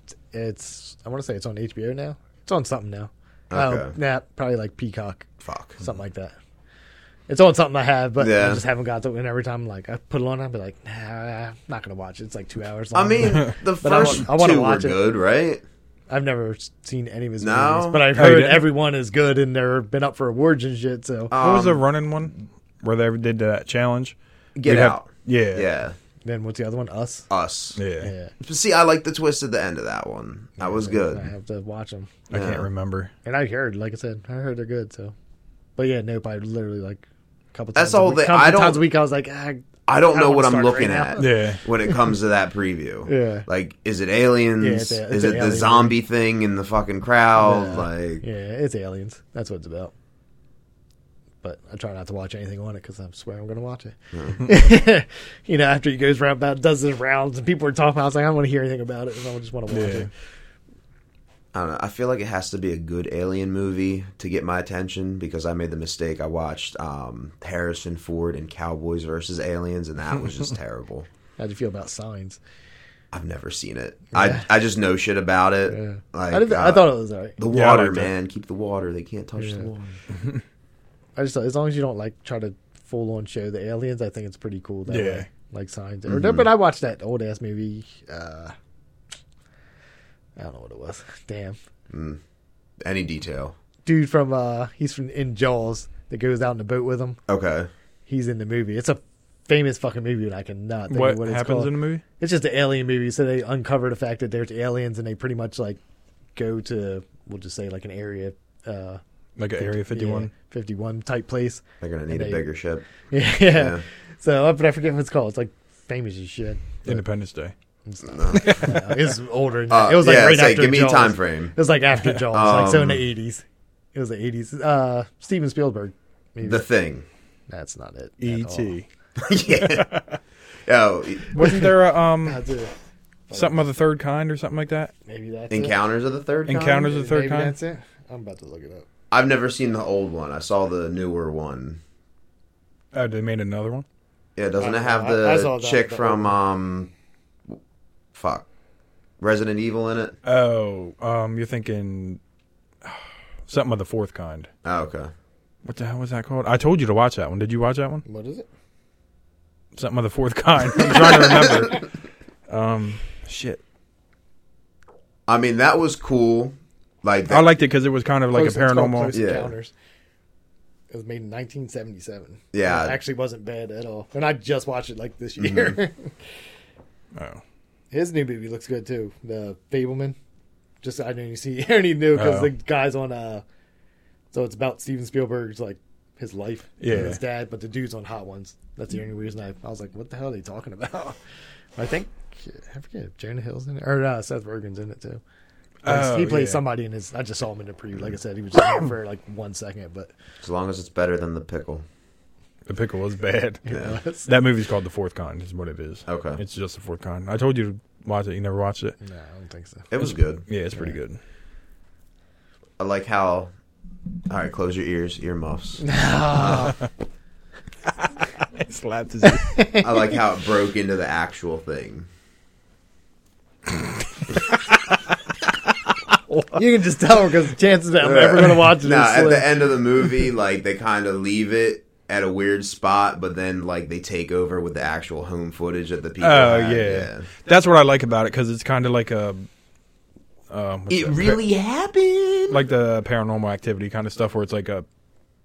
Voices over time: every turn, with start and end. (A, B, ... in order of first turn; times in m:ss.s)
0:00.3-0:05.3 A
0:03.5-0:03.9 B
0:05.4-0:05.8 B
0:05.8-0:06.4 A
0:07.3-0:15.0 A
0:08.2-0:08.6 B
0:12.9-0:15.6 B
0:16.1-0:21.3 A
0:17.4-0:18.1 B
0:18.2-0:18.7 C
0:21.3-0:21.8 B
0:21.3-0:25.7 C
0:24.6-0:26.0 B
0:26.2-0:27.3 A
0:27.3-0:27.8 B
0:27.8-0:28.1 C
0:28.0-0:28.3 A
0:28.4-0:31.3 B
0:30.6-0:32.1 A
0:32.3-0:33.1 C
0:32.3-0:32.7 B
0:33.2-0:35.1 A
0:35.8-0:42.0 A
0:37.7-0:38.8 B
0:39.9-0:48.2 B
0:41.2-0:41.6 C
0:43.0-0:43.4 A
0:44.6-0:46.0 A
0:47.4-0:49.9 A
0:51.4-1:00.1 A
0:54.1-0:54.5 B
0:59.7-1:00.1 C
1:01.5-1:11.1 B
1:11.4-1:12.4 A
1:13.1-1:19.9 B
1:14.1-1:14.4 A
1:15.7-1:17.4 A
1:17.5-1:18.1 C
1:19.4-1:19.7 A
1:21.2-1:28.5 A
1:24.9-1:25.3 C
1:26.1-1:26.4 B
1:30.4-1:31.6 A
1:31.9-1:32.2 B
1:32.8-1:33.5 B
1:33.8-1:37.2 A
1:37.3-1:37.7 B
1:38.1-1:45.8 A
1:40.9-1:42.0 C
1:46.4-1:49.0 A
1:49.4-1:50.3 C
1:49.6-1:52.4 A
1:51.8-1:52.9 B
1:53.1-1:57.0 A
1:53.5-1:53.8 B
1:56.8-1:57.5 C
1:57.8-2:06.6 A
1:58.0-1:58.8 B
1:58.3-1:58.8 C
1:59.7-2:01.5 B
2:02.3-2:03.0 B
2:06.4-2:07.0 B
2:07.5-2:08.7 A
2:08.2-2:08.9 C
2:09.2-2:09.9 B
2:09.6-2:10.2 C
2:10.6-2:11.6 B
2:11.3-2:12.4 C
2:12.2-2:12.7 A
2:13.3-2:13.7 A
2:13.3-2:14.9 C
2:15.0-2:15.8 A
2:15.5-2:16.9 B
2:16.5-2:17.5 C
2:16.8-2:18.9 A
2:19.1-2:21.8 B
2:22.9-2:23.8 C
2:24.4-2:26.9 B
2:24.6-2:26.3 A
2:28.1-2:28.5 B
2:29.2-2:30.1 B
2:30.2-2:32.2 C
2:32.8-2:34.5 C
2:34.6-2:35.1 B
2:35.6-2:38.0 C
2:38.0-2:38.5 A
2:39.8-2:41.8 C
2:42.5-2:43.6 C
2:45.3-2:47.5 B
2:47.3-2:49.1 C
2:48.3-2:49.7 A
2:49.1-2:49.5 B
2:50.9-2:56.1 A
2:52.5-2:53.0 B
2:55.4-2:55.8 B
2:57.1-2:57.4 C
2:57.9-3:00.2 A
3:00.8-3:03.4 A
3:02.1-3:02.5 C
3:04.3-3:11.2 A
3:06.8-3:07.2 C
3:11.8-3:15.2 A
3:15.8-3:16.6 C
3:15.8-3:20.1 A
3:20.4-3:21.8 B
3:22.7-3:23.6 C
3:23.6-3:24.3 A
3:24.2-3:29.0 C
3:26.1-3:26.4 B
3:29.0-3:29.9 A
3:29.9-3:30.4 B
3:30.0-3:31.2 C
3:32.8-3:33.5 B
3:34.3-3:36.7 B
3:35.8-3:36.8 A
3:38.4-3:39.7 C
3:39.2-3:39.9 A
3:39.8-3:42.1 B
3:46.5-3:49.5 A
3:48.0-3:57.3 B
3:56.2-3:59.5 C
4:00.5-4:01.4 C
4:00.9-4:02.6 B
4:02.5-4:04.9 C